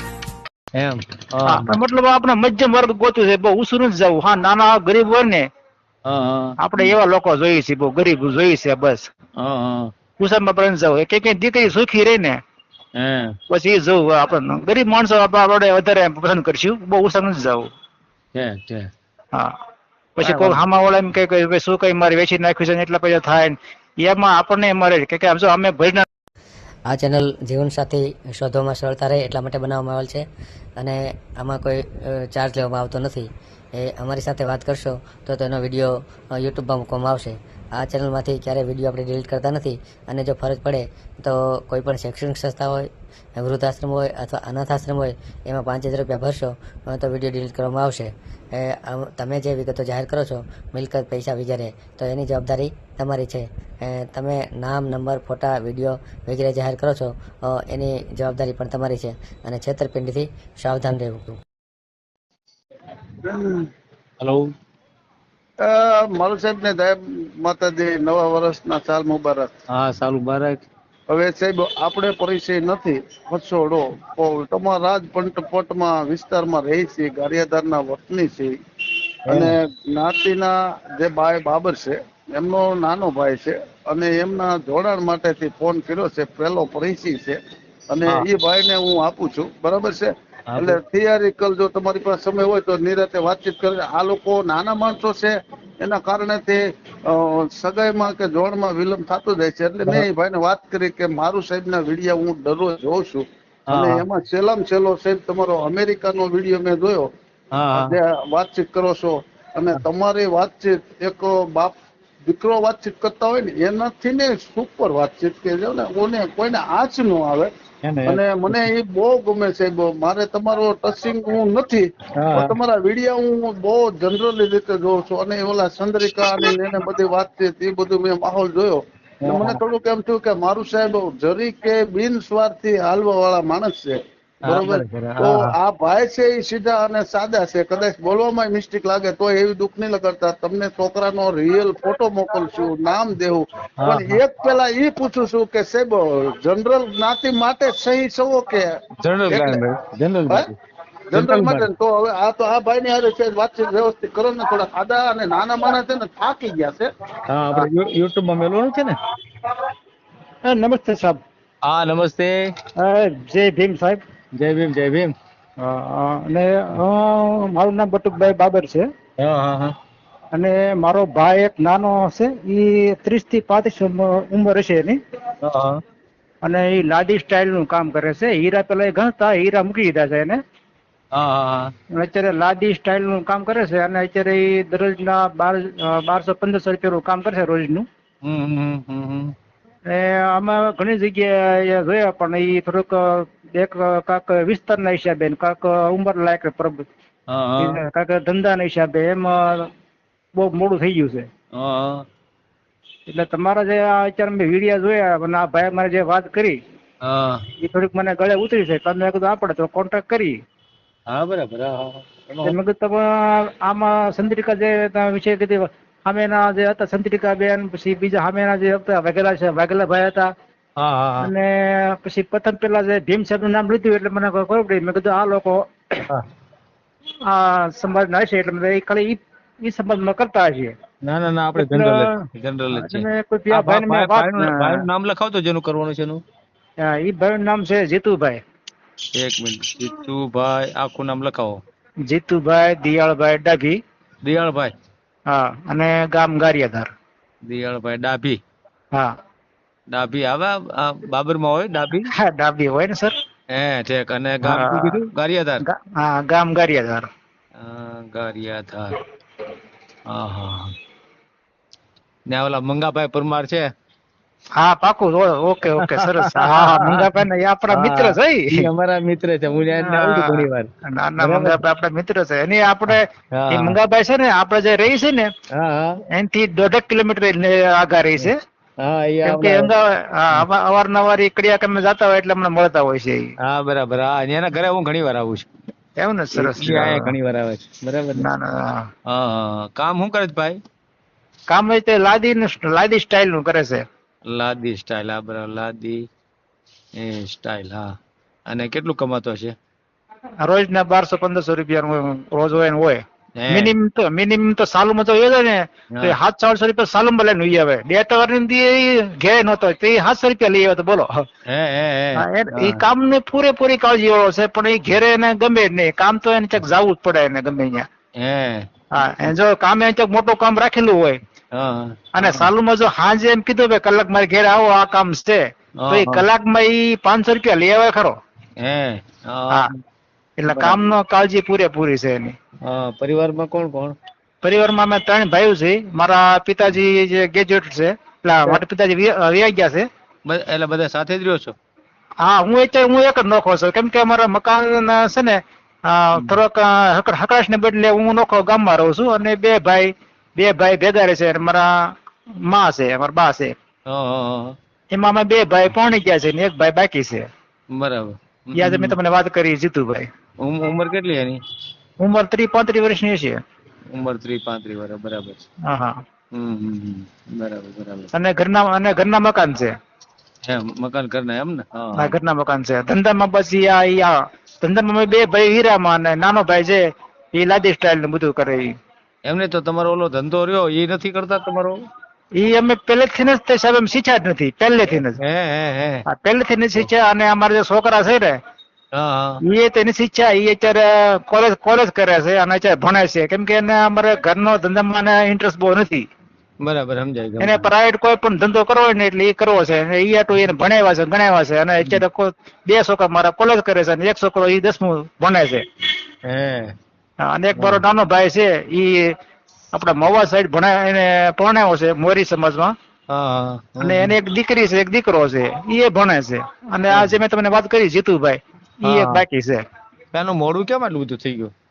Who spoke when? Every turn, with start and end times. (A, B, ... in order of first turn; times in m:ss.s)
0:00.8-0:01.8 A
0:01.4-0:05.5 B
0:06.1-0:06.9 A
0:06.6-0:09.1 B
0:09.4-0:09.9 A
0:10.2-0:12.4 B
0:13.0-0:13.4 A
0:13.5-0:17.7 B
0:18.4-0:18.9 A
0:20.2-0:26.0 B
0:20.2-0:20.6 C
0:26.9-0:30.2 C
0:30.8-1:01.4 C
1:03.3-1:03.7 D
1:04.2-1:04.5 A
1:05.6-1:09.5 D
1:09.8-1:10.6 A
1:11.1-1:18.6 D
1:19.3-1:19.5 A
1:19.3-1:27.4 D
1:27.9-1:47.1 D
1:30.5-1:30.8 A
1:43.7-1:44.0 A
1:47.6-1:48.0 A
1:47.7-1:51.8 D
1:52.3-1:57.5 D
1:57.8-1:58.7 A
1:58.1-2:28.6 D
2:02.2-2:02.6 A
2:09.2-2:09.6 A
2:14.4-2:15.5 A
2:23.8-2:24.2 A
2:29.0-2:30.6 A
2:29.3-2:29.6 D
2:31.1-2:36.9 D
2:31.1-2:31.7 A
2:37.3-2:39.0 A
2:40.4-2:41.2 B
2:41.6-2:42.3 A
2:42.8-2:44.0 B
2:44.3-2:45.1 A
2:45.6-2:48.9 B
2:49.2-2:49.8 A
2:50.3-2:55.0 B
2:55.4-2:55.8 A
2:56.4-3:00.4 B
3:01.1-3:01.7 A
3:01.9-3:07.9 B
3:08.2-3:09.4 A
3:09.9-3:16.9 B
3:17.3-3:17.8 A
3:17.6-3:19.7 B
3:20.4-3:21.3 B
3:21.5-3:22.0 A
3:23.1-3:26.6 B
3:27.0-3:27.4 A
3:27.6-3:30.4 B
3:31.1-3:32.6 A
3:32.4-3:40.3 B
3:40.8-3:41.3 A
3:41.2-3:46.0 B
3:47.3-3:50.8 B
3:51.0-3:56.2 A
3:51.6-3:52.1 B
3:52.7-3:54.9 B
3:56.8-3:58.4 B
3:59.2-4:01.6 A
4:02.1-4:03.8 B
4:04.2-4:04.7 A
4:05.3-4:06.9 B
4:07.4-4:08.4 A
4:09.9-4:12.1 A
4:12.1-4:13.1 B
4:13.5-4:15.6 A
4:14.5-4:15.0 B
4:15.6-4:17.1 B
4:17.6-4:19.0 A
4:20.1-4:20.8 A
4:22.3-4:23.7 A
4:24.6-4:28.6 B
4:25.8-4:27.1 A
4:27.7-4:31.6 A
4:29.8-4:35.3 B
4:32.9-4:33.8 A
4:35.5-4:36.0 A
4:36.1-4:38.4 B
4:38.2-4:39.7 A
4:39.2-4:43.3 B
4:43.4-4:45.5 A
4:46.0-4:47.1 B
4:46.4-4:48.3 A
4:48.2-4:48.9 B
4:49.1-4:50.6 A
4:51.5-4:53.8 B
4:54.3-4:56.0 A
4:57.0-4:57.9 A
4:58.5-4:59.5 A
5:00.4-5:11.2 B
5:03.4-5:03.7 A
5:11.5-5:12.8 A
5:12.2-5:17.9 B
5:18.2-5:18.7 A
5:18.9-5:21.2 B
5:21.6-5:22.5 A
5:22.2-5:28.2 B
5:25.8-5:26.3 A
5:28.6-5:29.7 A
5:30.4-5:32.4 B
5:30.5-5:30.9 A
5:32.6-5:34.0 A
5:34.4-5:39.9 B
5:40.3-5:41.6 A
5:42.2-5:51.7 B
5:52.5-5:53.6 B
5:53.9-5:54.6 A
5:54.9-5:57.3 B
5:57.7-5:59.0 A
5:58.6-6:00.1 B
6:00.4-6:01.4 A
6:02.0-6:03.4 B
6:03.9-6:05.4 A
6:05.7-6:06.0 B
6:06.4-6:08.1 A
6:08.1-6:09.7 B
6:10.5-6:12.2 A
6:12.0-6:16.8 B
6:17.4-6:18.7 B
6:19.3-6:21.8 A
6:22.4-6:25.2 B
6:25.2-6:26.0 A
6:26.1-6:28.4 B
6:29.0-6:29.4 A
6:29.5-6:36.1 B
6:36.6-6:37.7 A
6:37.4-6:45.6 B
6:46.3-6:46.7 A
6:47.2-6:49.2 B
6:47.6-6:47.8 A
6:49.7-6:52.7 B
6:53.1-6:54.2 A
6:53.8-6:59.6 B
6:56.9-6:57.2 A
6:58.8-6:59.2 A
7:00.1-7:01.5 A